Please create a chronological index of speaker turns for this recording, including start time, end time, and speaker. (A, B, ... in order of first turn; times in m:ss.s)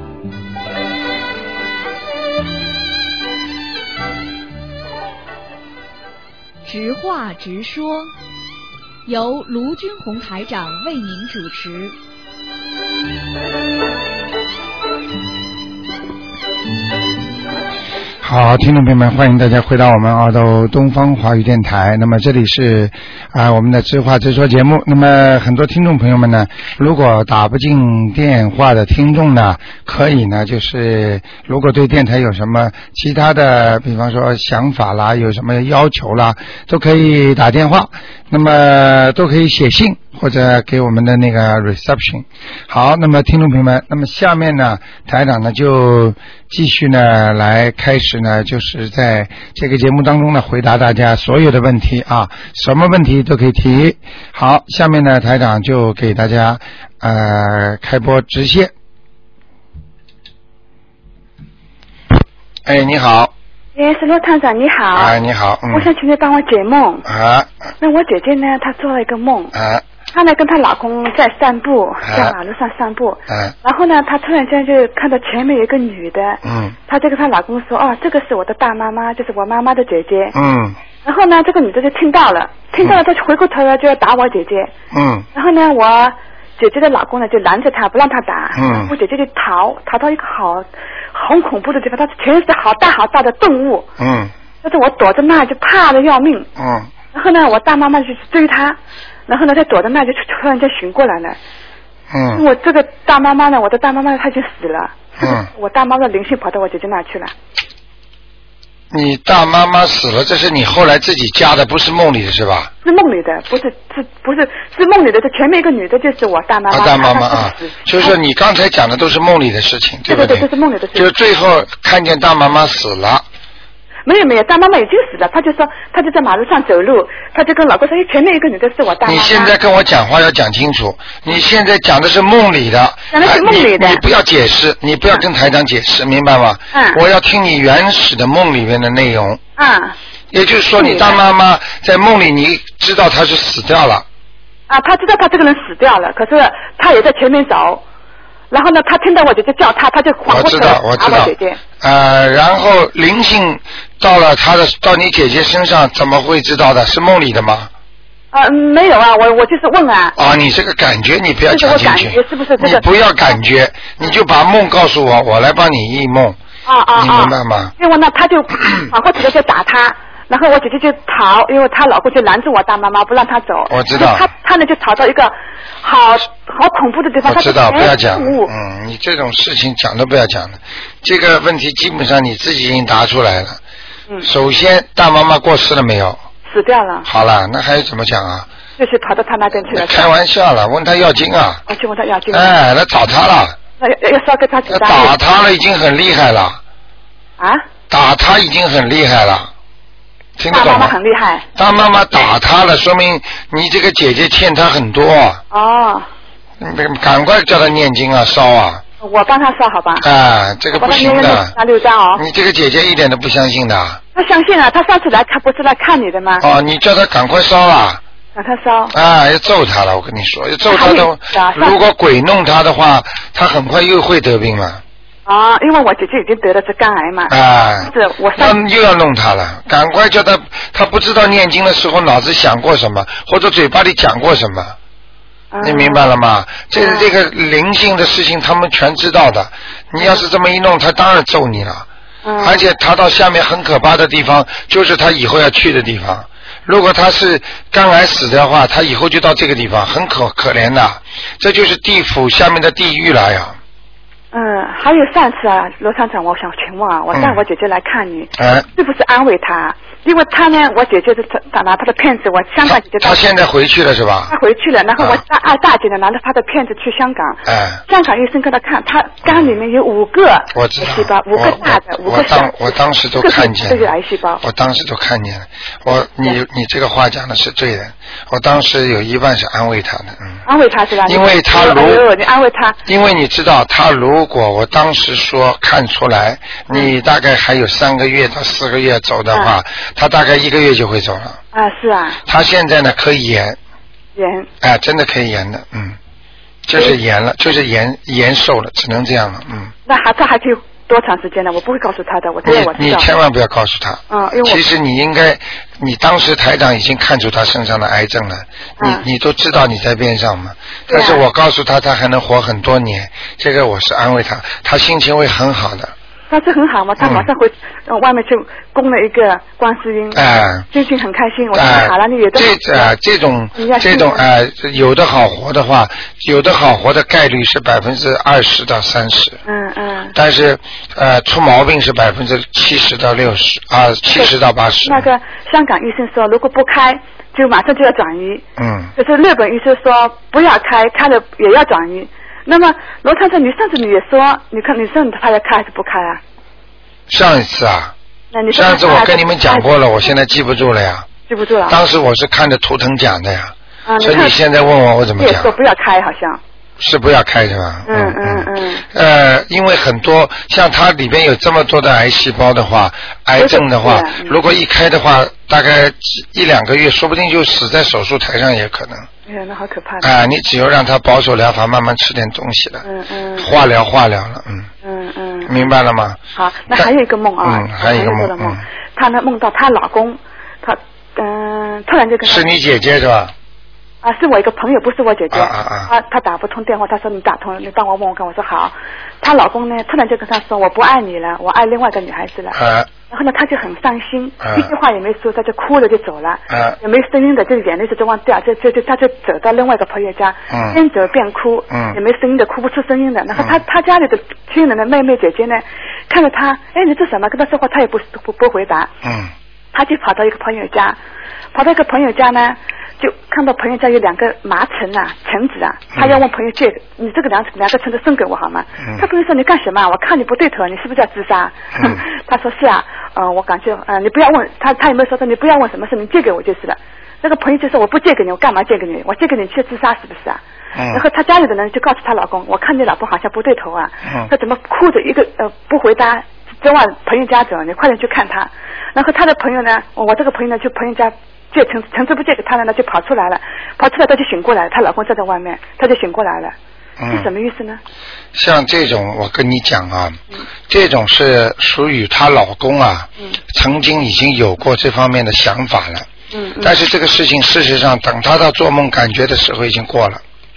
0:06.7-0:08.1 A
0:09.1-0:12.0 A
0:18.2-0:58.7 B
1:02.7-1:03.3 B
1:03.8-1:05.2 C
1:04.9-1:05.9 B
1:05.7-1:07.1 C
1:07.1-1:07.5 B
1:07.8-1:09.5 C
1:09.5-1:09.8 B
1:10.1-1:20.4 C
1:12.0-1:12.4 B
1:13.3-1:13.6 B
1:16.4-1:16.8 B
1:20.3-1:20.8 B
1:21.0-1:24.7 C
1:24.9-1:25.3 B
1:25.3-1:33.9 C
1:28.6-1:28.9 B
1:34.0-1:34.3 B
1:34.6-1:36.5 C
1:36.6-1:36.9 B
1:37.1-1:41.4 C
1:42.1-1:42.4 B
1:42.4-1:47.3 C
1:45.2-1:45.5 B
1:48.9-1:52.7 B
1:52.8-1:58.2 C
1:56.7-2:03.2 B
2:00.1-2:01.1 C
2:04.0-2:09.5 C
2:09.0-2:19.4 B
2:13.1-2:14.0 C
2:16.7-2:17.0 C
2:19.6-2:20.0 C
2:20.3-2:24.0 B
2:20.8-2:21.2 C
2:24.7-2:27.8 C
2:28.5-2:31.6 C
2:30.3-2:37.7 B
2:38.3-2:40.2 C
2:40.2-2:46.4 B
2:41.5-2:42.8 C
2:46.6-2:58.5 C
2:47.0-2:47.7 B
2:53.7-2:54.3 B
2:57.2-3:03.6 B
3:04.2-3:06.2 B
3:06.5-3:07.1 C
3:07.0-3:08.5 B
3:08.8-3:10.1 C
3:09.7-3:11.6 B
3:11.7-3:12.6 C
3:12.3-3:13.6 B
3:13.8-3:15.2 C
3:14.7-3:16.6 B
3:17.4-3:17.6 C
3:17.9-3:19.5 B
3:20.4-3:21.0 B
3:20.5-3:21.5 C
3:21.6-3:25.4 B
3:25.5-3:26.1 C
3:26.6-3:28.8 B
3:29.0-3:30.1 C
3:30.0-3:31.6 B
3:30.7-3:32.2 C
3:32.2-3:34.0 B
3:34.1-3:36.5 C
3:36.4-3:38.0 B
3:38.4-3:39.0 C
3:38.9-3:44.8 B
3:40.7-3:41.8 C
3:45.2-3:48.6 C
3:47.3-3:54.8 B
3:55.5-3:56.1 C
3:55.6-4:01.9 B
3:56.8-3:57.1 C
4:02.2-4:02.6 C
4:02.4-4:13.6 B
4:14.3-4:23.3 C
4:17.1-4:17.4 B
4:18.4-4:18.7 B
4:22.6-4:24.4 B
4:24.3-4:34.4 C
4:25.0-4:25.2 B
4:27.4-4:27.8 B
4:29.2-4:29.6 B
4:30.5-4:40.4 B
4:40.4-4:42.8 C
4:41.1-4:42.1 B
4:42.8-4:51.4 B
4:51.5-4:52.2 C
4:52.3-4:53.6 B
4:54.2-4:54.5 C
4:54.6-4:56.0 B
4:56.7-4:59.7 B
4:59.9-5:03.1 C
5:02.4-5:15.9 B
5:04.1-5:04.6 C
5:08.8-5:09.0 C
5:10.9-5:11.2 C
5:16.3-5:23.0 C
5:17.0-5:17.3 B
5:20.1-5:20.7 B
5:21.5-5:29.4 B
5:23.6-5:24.2 C
5:29.5-5:30.2 C
5:30.1-5:35.1 B
5:34.1-5:46.2 C
5:38.6-5:38.9 B
5:47.1-5:47.9 B
5:48.3-5:49.7 C
5:48.5-5:51.1 B
5:51.3-5:51.8 C
5:51.7-5:55.5 B
5:53.9-5:54.4 C
5:55.2-5:56.4 C
5:56.8-6:09.1 B
5:57.9-5:58.8 C
6:03.4-6:04.4 C
6:09.3-6:10.1 C
6:10.0-6:12.8 B
6:12.8-6:13.5 C
6:13.4-6:14.7 B
6:14.8-6:15.6 C
6:15.5-6:16.2 B
6:16.3-6:22.5 C
6:17.4-6:18.6 B
6:22.2-6:23.3 B
6:24.0-6:32.6 C
6:25.3-6:25.9 B
6:32.5-6:32.9 B
6:33.1-6:48.9 C
6:34.4-6:34.7 B
6:36.5-6:36.8 B
6:40.5-6:40.8 B
6:41.7-6:42.0 B
6:43.3-6:43.6 B
6:49.0-6:49.3 B
6:49.7-6:51.0 C
6:51.5-7:26.6 C
6:56.0-6:56.2 B
7:01.7-7:02.0 B
7:10.8-7:11.0 B
7:27.0-7:27.3 B
7:27.1-7:27.8 C
7:28.3-7:36.1 B
7:36.3-7:36.8 C
7:36.6-7:40.2 B